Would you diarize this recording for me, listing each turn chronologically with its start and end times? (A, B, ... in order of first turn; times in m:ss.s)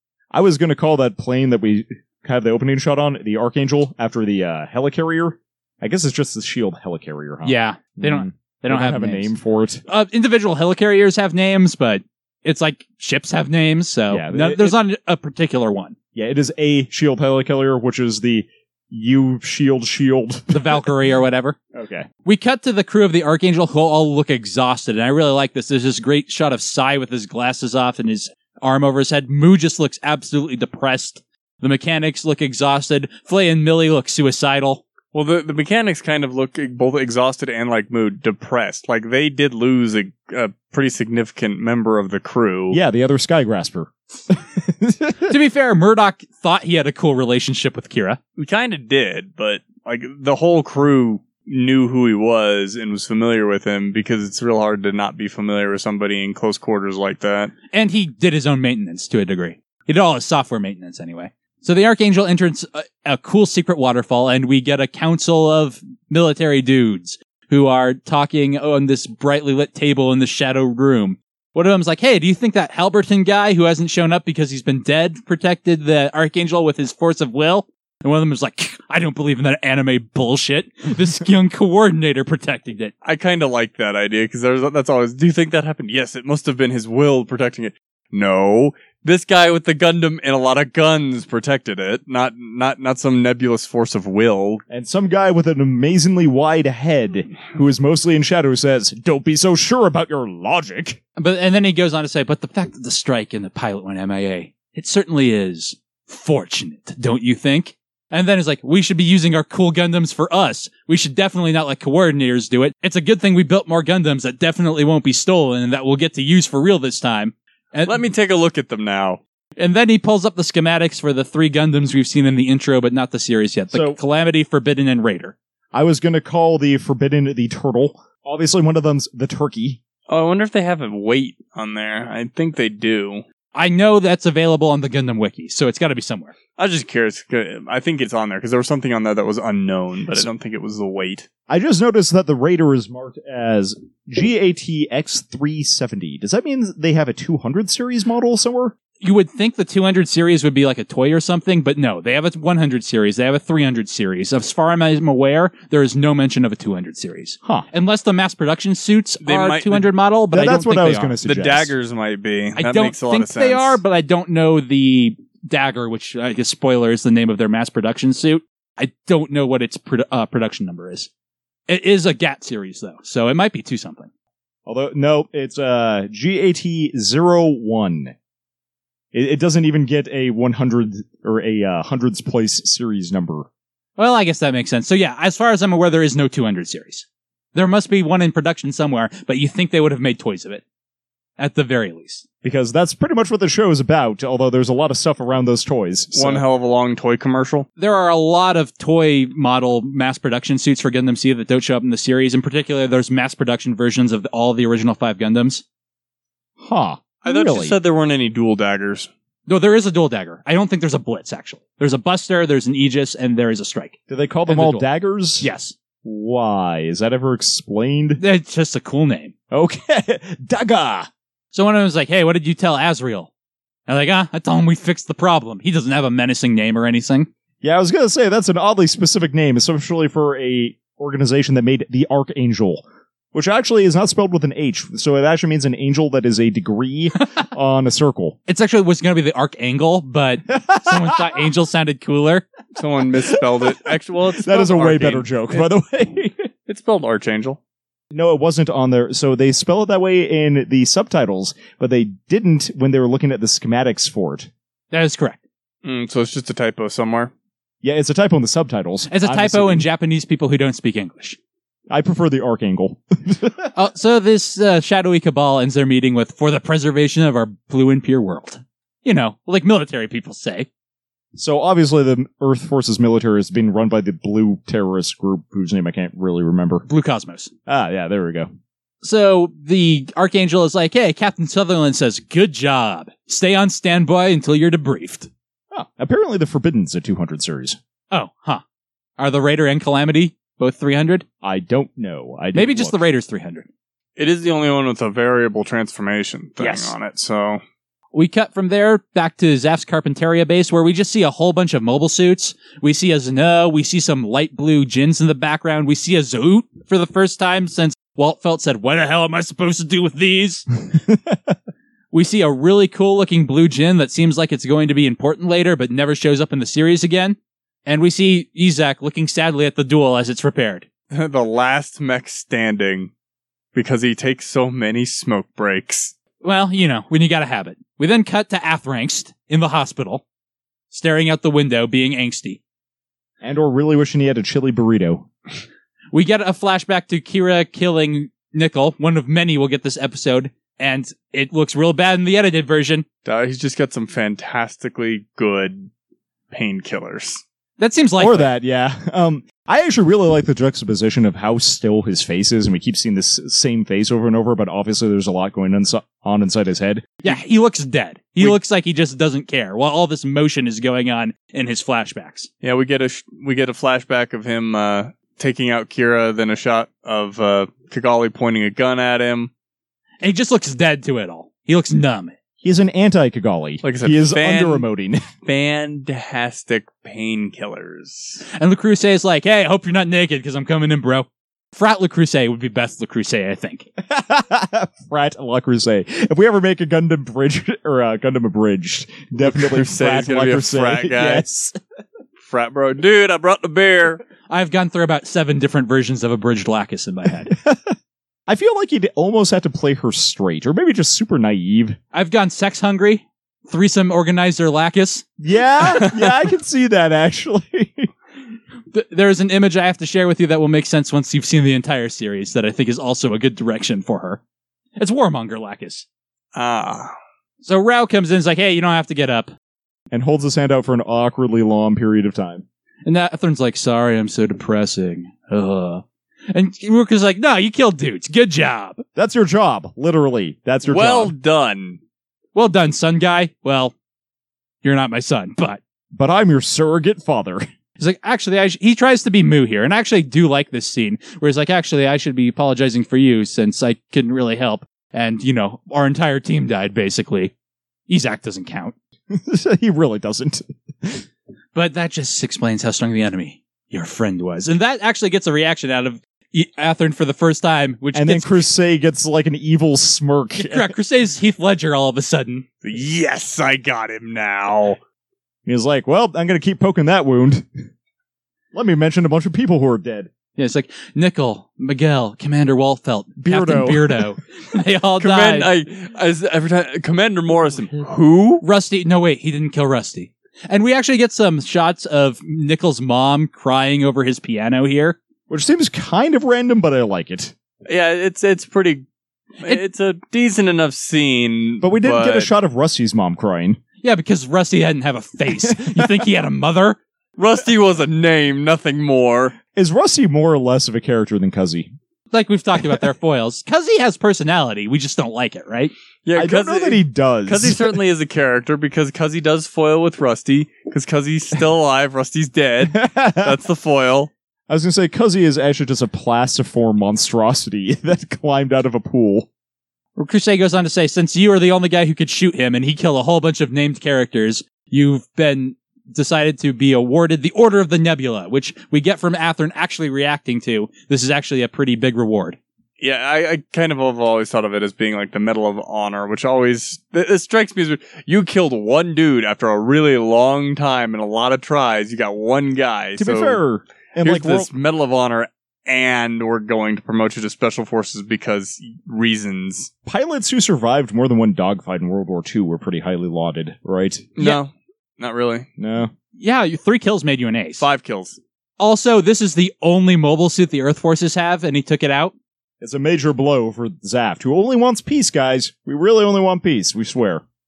0:00.3-0:09.8 A
0:07.4-0:09.3 B
0:09.9-0:15.9 B
0:14.1-0:14.8 A
0:16.1-0:20.9 A
0:20.5-0:21.6 B
0:21.7-0:22.1 A
0:22.2-0:34.8 B
0:35.1-0:42.8 C
0:42.7-0:45.3 A
0:45.3-0:48.2 B
0:48.4-0:57.5 C
0:57.7-1:22.9 B
1:23.0-1:34.6 C
1:34.7-1:41.0 A
1:41.2-1:58.0 B
1:57.8-1:59.2 C
1:59.6-2:05.3 B
2:03.7-2:04.0 A
2:05.7-2:09.8 A
2:10.1-2:13.2 C
2:13.5-2:16.3 B
2:16.6-2:21.3 C
2:21.5-2:28.7 A
2:29.0-2:41.1 B
2:39.2-2:39.9 C
2:40.3-2:41.7 A
2:41.2-2:43.8 C
2:42.6-2:51.1 B
2:51.7-2:54.1 B
2:54.6-2:58.1 A
2:59.1-3:03.5 A
3:04.0-3:10.6 B
3:11.4-3:12.2 B
3:12.4-3:16.4 A
3:16.1-3:17.7 C
3:17.8-3:25.6 B
3:26.6-3:27.8 A
3:27.2-3:29.1 C
3:29.5-3:33.9 B
3:34.1-3:35.5 A
3:34.5-3:34.8 B
3:35.4-3:35.7 B
3:36.0-3:38.2 A
3:38.2-3:39.3 B
3:39.5-3:41.1 A
3:41.5-3:43.3 B
3:43.9-3:47.3 B
3:47.6-3:58.4 A
3:58.5-4:02.4 B
4:00.5-4:01.4 A
4:02.7-4:05.6 C
4:03.3-4:06.5 A
4:06.7-4:07.6 C
4:08.1-4:14.5 A
4:14.9-4:15.4 B
4:15.8-4:17.3 C
4:17.8-4:19.8 A
4:19.1-4:21.4 B
4:21.9-4:23.7 A
4:23.7-4:30.7 B
4:31.4-4:36.8 A
4:36.9-4:37.5 B
4:37.7-4:38.5 A
4:39.0-4:45.3 B
4:45.7-4:47.8 A
4:48.1-4:48.6 B
4:49.2-4:51.2 B
4:51.4-4:53.0 A
4:52.5-4:53.7 B
4:54.2-4:57.6 C
4:56.6-4:56.9 B
4:58.1-5:10.6 B
5:10.9-5:11.5 A
5:12.1-5:20.8 B
5:21.1-5:23.1 C
5:23.7-5:26.1 C
5:26.4-5:30.2 B
5:30.9-5:32.6 B
5:33.4-5:35.3 A
5:36.1-5:43.0 B
5:43.2-5:45.9 C
5:46.5-5:47.4 C
5:47.8-5:48.5 B
5:48.2-5:57.2 A
5:57.2-6:02.5 B
6:02.6-6:09.5 C
6:10.2-6:12.3 B
6:12.6-6:15.2 A
6:13.8-6:14.8 C
6:15.4-6:18.4 C
6:18.5-6:23.8 B
6:24.0-6:31.8 A
6:29.4-6:31.4 C
6:32.5-6:34.2 C
6:34.5-6:37.5 B
6:37.5-6:37.9 A
6:38.5-6:42.0 A
6:42.1-6:45.2 B
6:45.4-6:48.1 A
6:48.9-6:54.4 B
6:55.0-6:56.0 B
6:56.5-6:57.1 C
6:57.6-6:59.5 B
7:00.1-7:02.6 A
7:03.0-7:09.0 B
7:09.2-7:11.3 A
7:10.8-7:12.0 C
7:12.5-7:13.9 B
7:14.8-7:15.8 B
7:16.1-7:17.6 A
7:18.0-7:27.5 B
7:28.1-7:28.9 B
7:29.3-7:31.2 A
7:31.7-7:38.6 B
7:38.1-7:40.9 A
7:40.6-7:42.6 B
7:42.8-7:45.0 C
7:45.6-7:47.7 A
7:48.7-7:50.3 A
7:50.6-7:55.7 B
7:53.4-7:54.3 A
7:55.2-7:58.6 C
7:58.6-8:05.2 B
8:05.5-8:07.5 A
8:07.9-8:09.0 C
8:09.6-8:12.5 C
8:11.8-8:13.8 A
8:14.0-8:17.0 B
8:15.5-8:16.2 A
8:17.4-8:19.6 C
8:19.7-8:21.9 A
8:22.3-8:25.9 B
8:26.2-8:34.3 C
8:26.3-8:28.0 A
8:32.9-8:33.6 A
8:34.7-8:39.5 A
8:40.2-8:52.6 B
8:53.0-9:03.6 C
9:03.2-9:04.7 A
9:04.2-9:09.9 C
9:10.0-9:14.3 A
9:14.4-9:15.7 C
9:15.8-9:16.1 A
9:16.4-9:17.8 B
9:17.8-9:18.4 C
9:18.8-9:22.3 B
9:22.8-9:27.4 A